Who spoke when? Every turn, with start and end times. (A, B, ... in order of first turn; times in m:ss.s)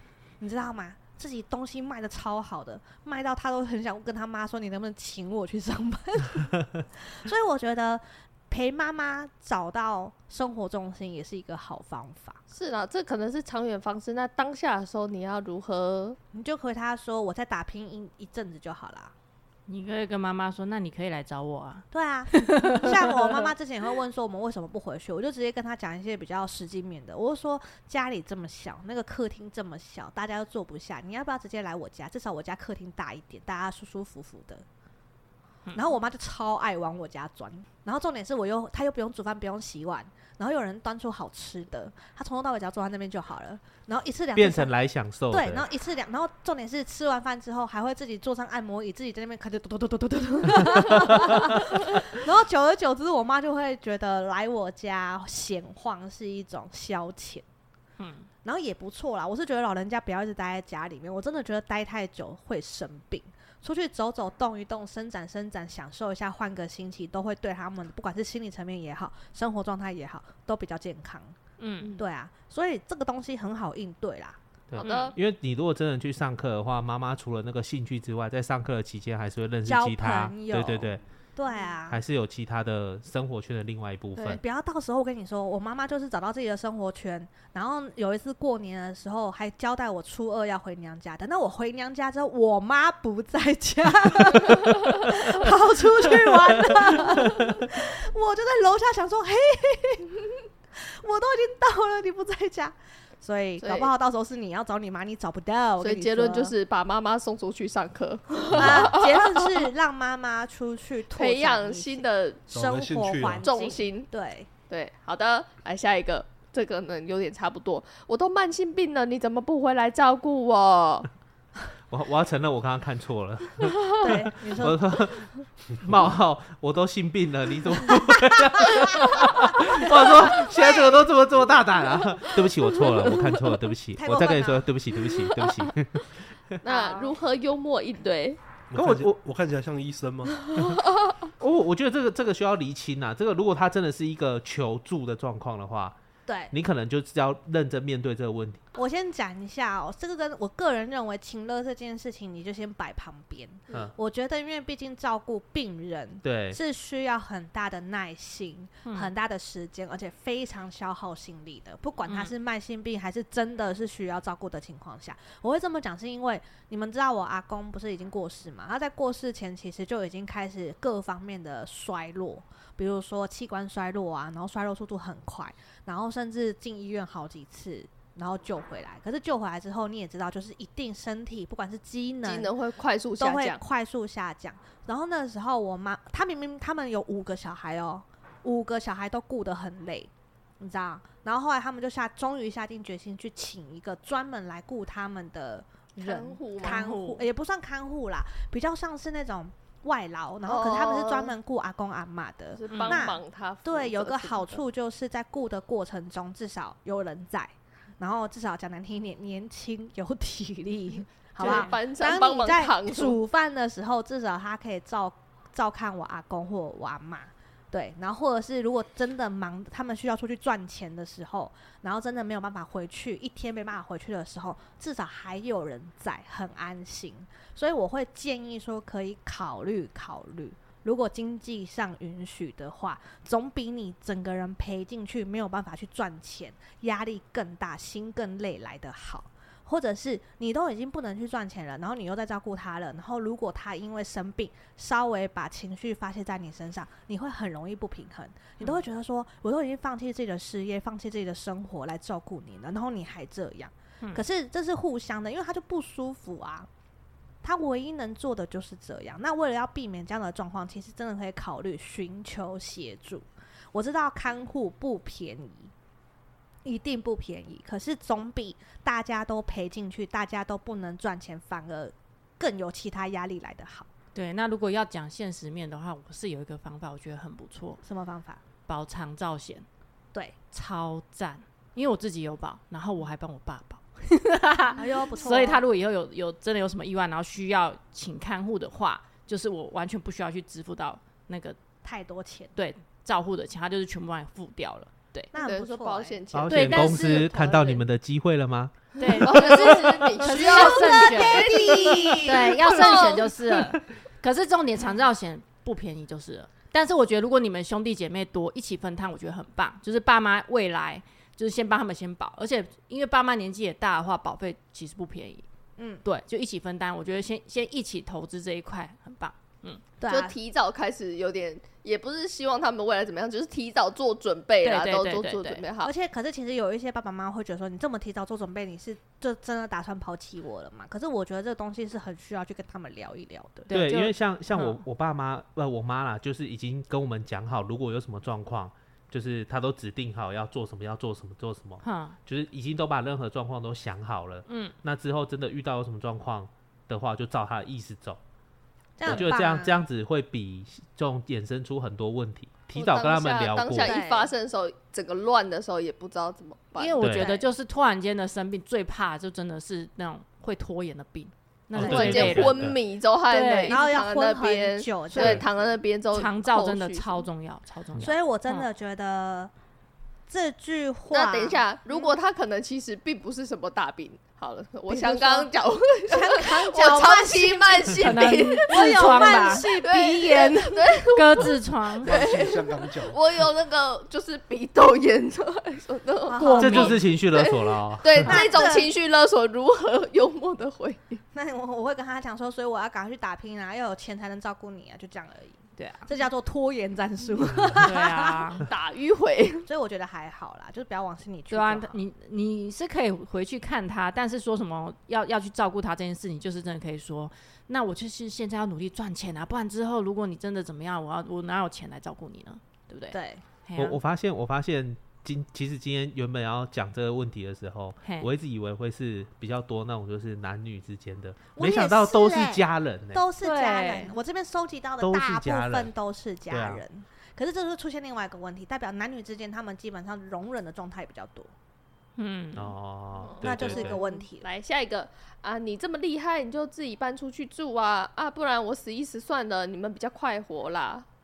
0:00.4-0:12.4 A
0:12.5-0:16.2 B
0:16.3-0:19.1 A
0:19.7-0:23.4 C
0:21.9-0:34.6 A
0:35.7-0:44.7 A
0:44.4-0:45.6 D
0:45.3-0:57.4 A
0:58.0-0:58.3 C
0:58.4-1:11.4 A
1:11.6-1:12.0 C
1:12.0-1:14.4 A
1:14.7-1:21.0 D
1:14.8-1:15.1 B
1:14.8-1:15.1 C
1:19.6-1:22.0 A
1:21.9-1:24.4 D
1:24.2-1:46.5 A
1:43.6-1:43.9 B
1:45.8-1:49.5 B
1:48.5-1:54.5 A
1:51.1-1:52.4 B
1:52.5-1:53.5 E
1:53.4-1:54.1 B
1:54.7-2:01.1 B
2:01.9-2:16.1 D
2:04.0-2:04.9 A
2:09.6-2:11.0 A
2:13.9-2:14.7 A
2:16.6-2:18.4 B
2:16.6-2:17.2 A
2:18.7-2:19.2 D
2:18.7-2:20.5 E
2:20.6-2:21.1 B
2:21.4-2:26.0 D
2:26.3-2:26.5 A
2:26.5-2:28.6 D
2:28.7-3:02.5 A
2:36.2-2:36.6 D
2:38.8-2:39.1 C
2:42.0-2:42.3 C
3:02.2-3:03.6 B
3:03.2-4:16.7 A
3:16.0-3:17.2 B
3:16.7-3:17.0 C
3:20.4-3:21.3 B
3:22.6-3:24.6 B
3:22.7-3:23.0 C
3:31.4-3:33.2 B
3:31.4-3:31.7 C
4:17.4-4:25.7 A
4:26.6-4:33.9 A
4:34.1-4:37.8 C
4:37.8-4:38.4 A
4:38.7-4:39.6 C
4:40.5-4:51.6 C
4:44.8-4:45.6 A
4:51.8-4:52.5 A
4:52.6-4:55.3 C
4:55.3-4:57.2 A
4:55.4-4:57.8 B
4:56.3-4:58.7 D
4:56.5-4:57.2 C
4:59.0-5:15.4 C
4:59.1-5:03.3 B
4:59.5-5:02.6 A
5:15.8-5:16.0 A
5:16.0-5:19.8 C
5:20.0-5:20.3 A
5:20.1-5:25.9 B
5:24.6-5:25.6 C
5:25.8-5:33.7 A
5:33.7-5:34.8 C
5:33.7-5:48.2 D
5:41.8-5:42.2 C
5:44.5-5:44.7 C
5:49.0-5:49.8 A
5:49.0-5:54.0 D
5:52.7-5:57.0 B
5:53.8-5:54.3 A
5:56.8-6:02.7 C
5:57.0-5:57.3 D
5:57.2-5:57.5 A
6:01.7-6:02.8 D
6:01.8-6:07.2 B
6:01.8-6:02.3 A
6:03.3-6:03.8 C
6:03.7-6:05.4 A
6:06.1-6:08.6 C
6:08.0-6:09.5 A
6:10.3-6:12.1 A
6:11.1-6:31.2 B
6:14.9-6:15.5 A
6:16.0-6:18.1 A
6:18.0-6:19.6 C
6:18.7-6:21.0 A
6:21.1-6:22.2 C
6:22.0-6:23.2 E
6:26.3-6:27.0 A
6:26.4-6:27.0 C
6:26.6-6:28.3 D
6:28.2-6:28.9 A
6:31.3-6:38.6 A
6:35.8-6:36.1 C
6:37.8-6:38.6 C
6:38.7-6:39.6 B
6:39.6-6:42.0 A
6:41.5-6:54.0 C
6:53.1-6:53.4 A
6:53.8-7:03.2 D
6:58.0-6:58.3 C
7:01.6-7:11.5 A
7:03.4-7:04.1 C
7:05.0-7:05.9 D
7:06.5-7:06.8 D
7:12.2-7:12.8 C
7:12.6-7:14.0 D
7:13.2-7:21.0 B
7:13.4-7:14.5 A